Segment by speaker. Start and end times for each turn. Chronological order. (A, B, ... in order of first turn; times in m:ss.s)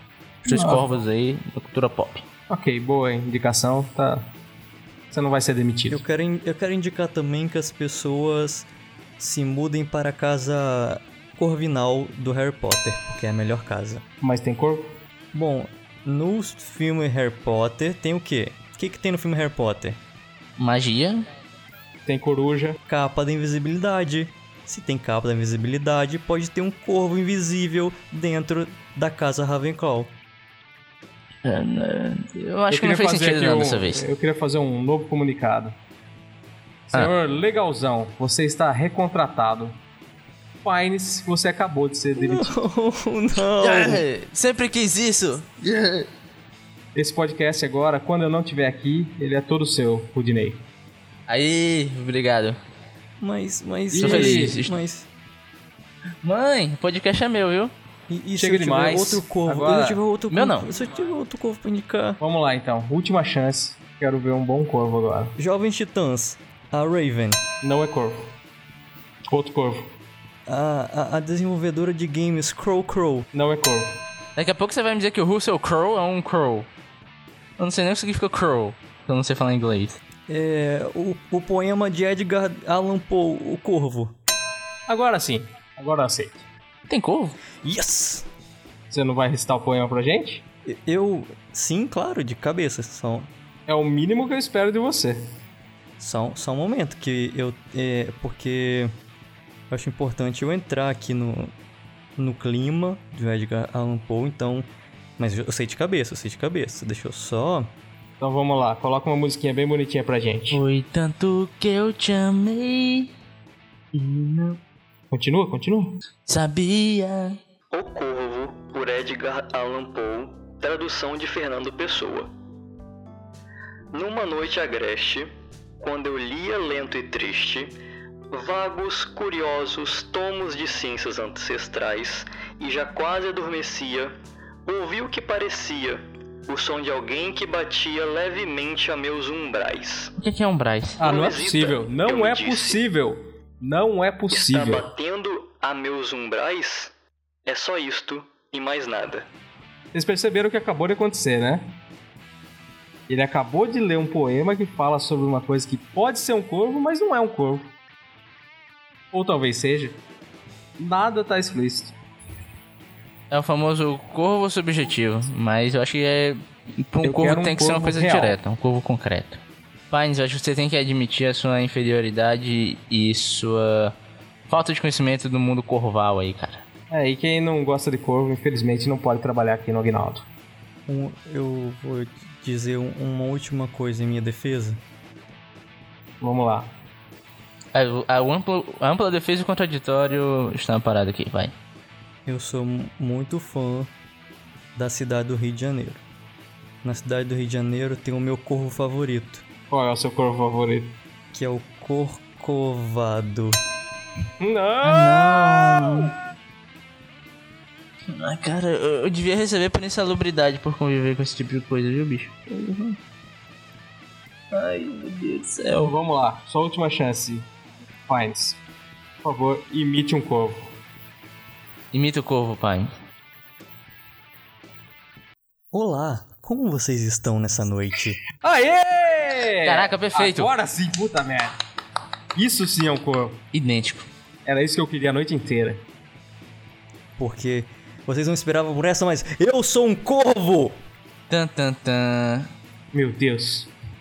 0:00.4-0:02.2 A
0:00.5-0:01.0 B
0:02.5-0:04.3 B
0:05.1-0:06.0 B
0:05.9-0:14.0 C
0:14.2-0:15.0 B
0:15.3-0:20.0 C
0:20.6-0:21.2 A
0:22.0-0:22.8 B
0:22.9-0:30.1 C
0:31.4-0:34.0 A
0:32.7-0:35.8 B
0:36.9-0:39.8 B
0:40.6-0:42.6 B
0:42.2-0:44.0 C
0:43.6-0:46.1 A
0:46.9-0:50.6 B
0:51.3-0:52.6 A
0:53.2-0:55.1 C
0:53.9-0:54.5 B
0:54.0-0:54.7 A
0:56.2-0:57.7 A
0:58.1-1:02.2 C
0:58.4-1:00.0 B
1:00.3-1:00.7 A
1:02.2-1:05.4 B
1:05.4-1:07.4 C
1:07.6-1:08.3 B
1:09.3-1:09.9 B
1:10.4-1:13.3 C
1:13.3-1:14.0 B
1:14.4-1:16.7 A
1:17.6-1:20.0 A
1:20.3-1:24.1 C
1:24.9-1:26.4 B
1:26.9-1:27.4 A
1:27.6-1:28.3 C
1:28.9-1:30.4 B
1:30.6-1:33.3 C
1:33.7-1:35.2 B
1:36.0-1:38.9 C
1:39.7-1:41.5 C
1:42.2-1:47.7 C
1:48.2-1:50.6 B
1:50.5-1:53.1 A
1:53.9-1:54.6 A
1:55.1-1:56.0 B
1:56.2-1:57.4 A
1:57.7-2:02.3 D
2:03.9-2:07.7 D
2:08.3-2:20.1 D
2:20.2-2:21.0 A
2:21.0-2:24.9 B
2:21.0-2:22.8 D
2:24.3-2:26.9 D
2:27.4-2:29.3 D
2:29.9-2:31.8 B
2:33.1-2:37.7 B
2:39.1-2:40.0 B
2:40.8-2:41.9 B
2:43.3-2:53.9 A
2:47.0-2:48.4 B
2:54.5-2:56.6 A
2:56.9-3:00.3 B
3:00.9-3:04.8 C
3:06.2-3:06.8 B
3:07.7-3:11.5 A
3:12.2-3:13.9 C
3:14.7-3:16.0 C
3:16.8-3:19.4 C
3:19.7-3:21.0 B
3:21.3-3:23.6 C
3:24.4-3:25.9 B
3:24.8-3:26.1 A
3:25.4-3:26.0 C
3:28.1-3:33.0 A
3:34.5-3:35.9 A
3:35.8-3:37.5 B
3:38.1-3:38.6 B
3:39.2-3:40.8 B
3:41.9-3:42.9 A
3:45.7-3:48.2 C
3:48.4-3:51.6 B
3:49.6-3:50.5 A
3:52.3-3:53.4 B
3:53.5-3:54.1 A
3:54.4-3:55.8 B
3:57.2-4:00.8 C
4:01.3-4:02.5 A
4:02.9-4:03.7 B